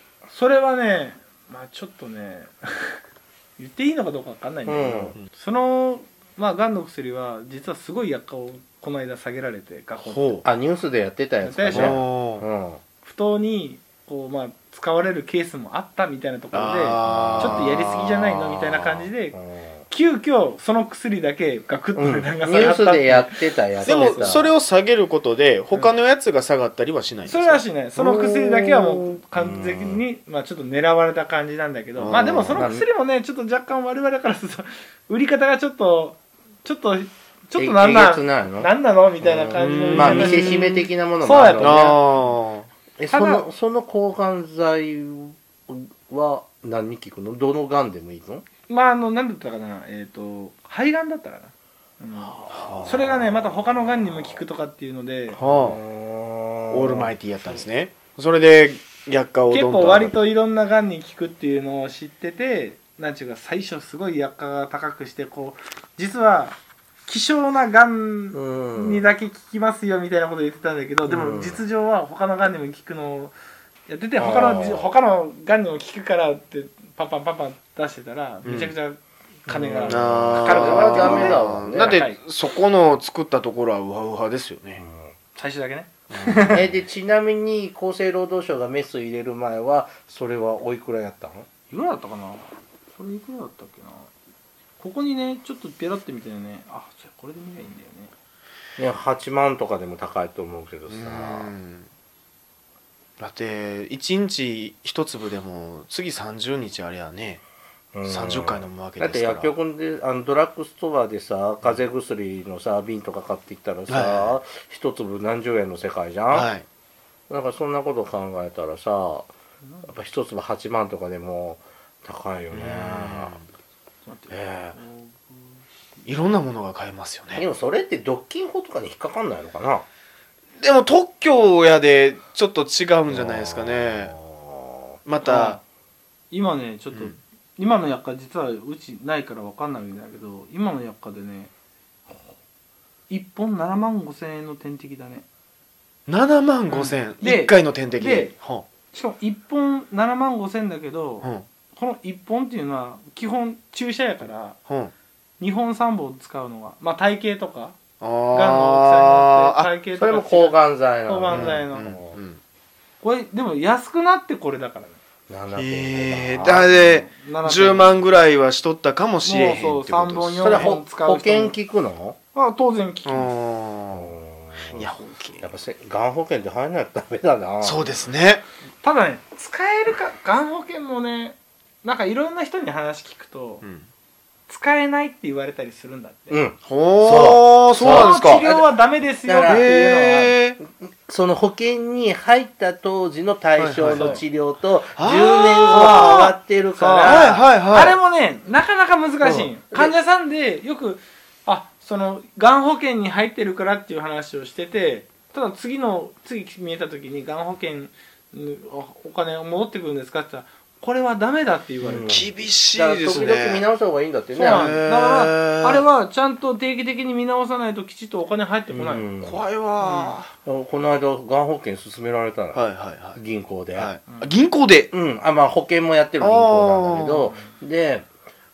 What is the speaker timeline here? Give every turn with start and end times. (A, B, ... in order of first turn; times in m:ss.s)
0:00.3-0:03.0 A
0:03.6-0:10.4 A
0:04.6-0:05.1 B
0:04.8-0:05.3 C
0:10.0-0:10.4 C
0:10.4-0:12.8 B
0:11.4-0:12.0 A
0:11.7-0:12.4 C
0:13.0-0:19.4 A
0:16.5-0:19.0 C
0:17.0-0:17.7 B
0:19.3-0:19.8 B
0:19.9-0:24.4 A
0:21.9-0:24.5 B
0:23.8-0:27.6 C
0:27.2-0:42.1 A
0:28.0-0:30.0 B
0:32.0-0:32.6 C
0:32.5-0:32.8 B
0:37.6-0:42.0 B
0:39.5-0:42.7 C
0:43.0-0:48.4 B
0:43.1-0:43.5 A
0:48.7-0:55.4 A
0:52.2-0:52.7 B
0:52.5-0:53.1 C
0:55.4-0:55.8 C
0:55.4-0:57.6 B
0:56.7-1:00.1 C
0:59.5-1:13.3 A
1:08.3-1:09.0 B
1:11.0-1:11.6 B
1:13.9-1:22.2 A
1:14.2-1:14.9 B
1:18.4-1:18.7 C
1:19.5-1:22.0 B
1:19.8-1:24.8 C
1:24.8-1:25.1 B
1:25.3-1:26.6 A
1:26.1-1:26.8 C
1:26.4-1:31.5 B
1:31.7-1:34.1 A
1:34.8-1:38.1 A
1:38.8-1:41.5 B
1:40.9-1:41.9 C
1:43.2-1:47.4 C
1:47.9-1:56.5 B
1:48.0-1:49.5 C
1:53.9-1:54.4 C
1:56.3-1:56.6 C
1:57.3-1:59.3 B
1:59.6-1:59.9 A
1:59.8-2:03.4 B
2:02.5-2:03.4 C
2:04.0-2:05.6 A
2:04.3-2:04.8 B
2:06.0-2:07.4 C
2:07.3-2:09.8 B
2:10.6-2:14.1 C
2:13.1-2:15.0 B
2:15.0-2:15.6 C
2:15.2-2:15.6 A
2:16.3-2:21.5 A
2:16.9-2:17.2 C
2:23.1-2:25.2 A
2:26.1-2:28.6 C
2:26.7-2:28.3 A
2:28.9-2:34.6 A
2:34.7-2:34.9 C
2:35.4-2:37.8 A
2:38.0-2:39.7 C
2:38.3-2:41.9 A
2:40.0-2:42.2 B
2:41.3-2:42.4 C
2:43.0-2:45.0 A
2:45.3-2:46.7 B
2:45.5-2:50.7 C
2:46.6-2:48.0 A
2:49.2-2:51.6 A
2:50.4-2:52.2 B
2:52.3-2:53.3 A
2:53.0-2:54.1 C
2:53.9-2:58.0 B
2:54.7-2:55.5 C
2:57.6-2:58.4 C
2:58.8-3:03.6 A
3:04.5-3:06.4 A
3:06.3-3:08.7 B
3:06.6-3:08.5 C
3:07.8-3:10.3 A
3:09.2-3:09.6 B
3:09.4-3:10.6 C
3:10.8-3:17.3 B
3:13.6-3:14.2 C
3:13.9-3:14.2 A
3:15.0-3:16.3 C
3:15.5-3:32.3 A
3:17.0-3:18.0 C
3:19.2-3:19.9 B
3:31.8-3:34.8 B
3:32.0-3:33.7 C
3:34.3-3:35.8 C
3:34.4-3:39.1 A
3:38.7-3:39.4 B
3:39.2-3:40.3 C
3:39.8-3:40.2 A
3:40.4-3:42.6 B
3:42.5-3:43.2 C
3:43.1-3:43.9 B
3:43.7-3:44.9 C
3:44.9-3:48.0 B
3:46.2-3:47.3 C